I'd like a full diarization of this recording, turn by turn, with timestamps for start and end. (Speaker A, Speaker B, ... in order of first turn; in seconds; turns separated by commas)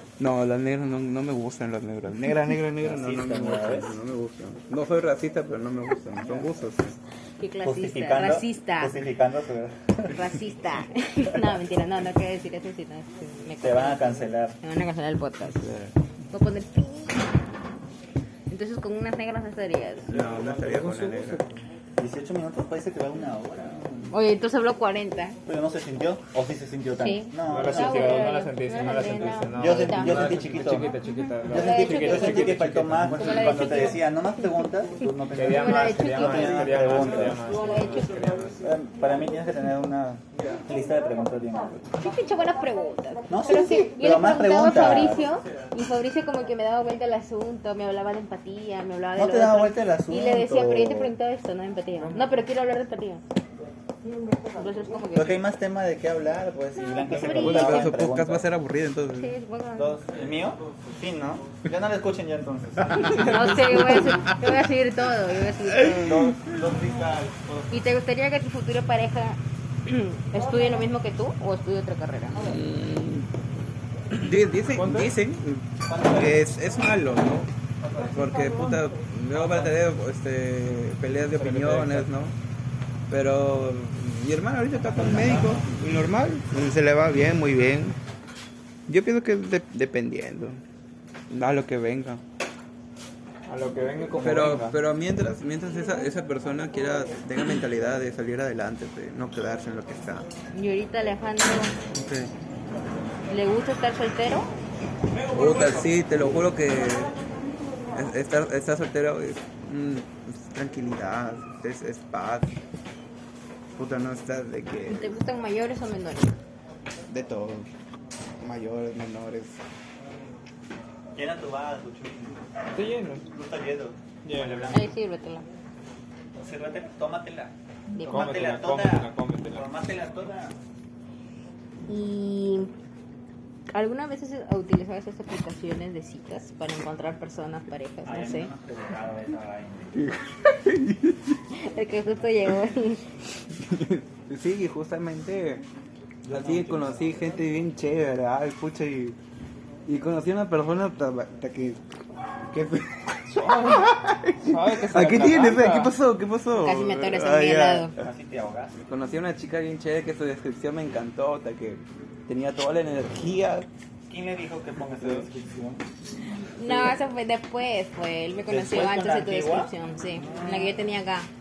Speaker A: 0.2-7.0, Speaker B: 2.8-3.9, Speaker B: 6.2-6.5, Speaker C: 7.4-8.9, Speaker B: 7.6-10.3, Speaker C: 10.1-15.7, Speaker B: 13.6-14.6, Speaker A: 15.5-15.9, Speaker C: 16.3-17.4, Speaker C: 18.5-20.1, Speaker B: 20.1-21.4, Speaker A: 20.1-21.5, Speaker B: 22.0-24.1, Speaker C: 24.1-25.4, Speaker B: 25.5-28.3, Speaker C: 27.0-30.4, Speaker D: 27.5-33.4, Speaker B: 29.5-30.9, Speaker B: 31.5-37.4, Speaker C: 31.5-34.2, Speaker D: 35.3-38.6, Speaker C: 35.5-38.3, Speaker B: 38.6-41.9, Speaker C: 42.0-53.2, Speaker B: 43.3-45.2, Speaker B: 49.2-51.1, Speaker D: 52.0-52.3, Speaker C: 54.4-55.4, Speaker B: 55.1-58.5, Speaker C: 57.0-57.9, Speaker A: 57.2-59.4, Speaker C: 59.2-60.0, Speaker B: 59.8-63.8, Speaker C: 63.0-66.3, Speaker A: 63.8-64.2, Speaker A: 65.8-66.5, Speaker B: 65.9-67.8, Speaker C: 67.7-72.6, Speaker A: 72.4-73.3, Speaker A: 74.1-77.5, Speaker D: 74.7-75.1, Speaker B: 75.9-76.5, Speaker B: 77.8-78.3, Speaker A: 78.1-82.3, Speaker B: 79.4-79.7, Speaker D: 81.3-82.1, Speaker A: 83.1-88.0, Speaker B: 84.8-85.8, Speaker A: 88.9-90.6, Speaker A: 91.3-92.2, Speaker D: 93.5-94.8, Speaker A: 94.2-100.3, Speaker C: 100.5-101.8, Speaker A: 101.9-102.3, Speaker C: 103.3-104.5, Speaker A: 105.3-107.2, Speaker A: 107.9-112.6, Speaker A: 113.8-115.1, Speaker C: 114.9-116.4, Speaker A: 117.1-117.7, Speaker A: 118.4-119.6, Speaker B: 121.2-122.5, Speaker D: 122.7-123.2, Speaker B: 123.2-124.9, Speaker D: 124.2-124.9, Speaker C: 124.7-125.5, Speaker B: 126.3-127.5, Speaker C: 127.9-128.3, Speaker D: 128.0-129.7, Speaker B: 128.1-130.6, Speaker C: 131.9-132.7, Speaker C: 133.7-138.5, Speaker B: 138.1-140.0, Speaker A: 140.0-141.3, Speaker C: 141.5-143.0, Speaker A: 143.6-145.6, Speaker B: 146.2-147.2, Speaker A: 146.3-149.2, Speaker A: 149.9-151.8, Speaker A: 152.5-158.0, Speaker D: 153.3-156.0, Speaker C: 156.6-157.9, Speaker B: 158.0-158.8, Speaker A: 158.8-163.7, Speaker B: 164.1-165.8, Speaker A: 165.0-165.3, Speaker C: 166.6-171.3, Speaker B: 168.5-170.8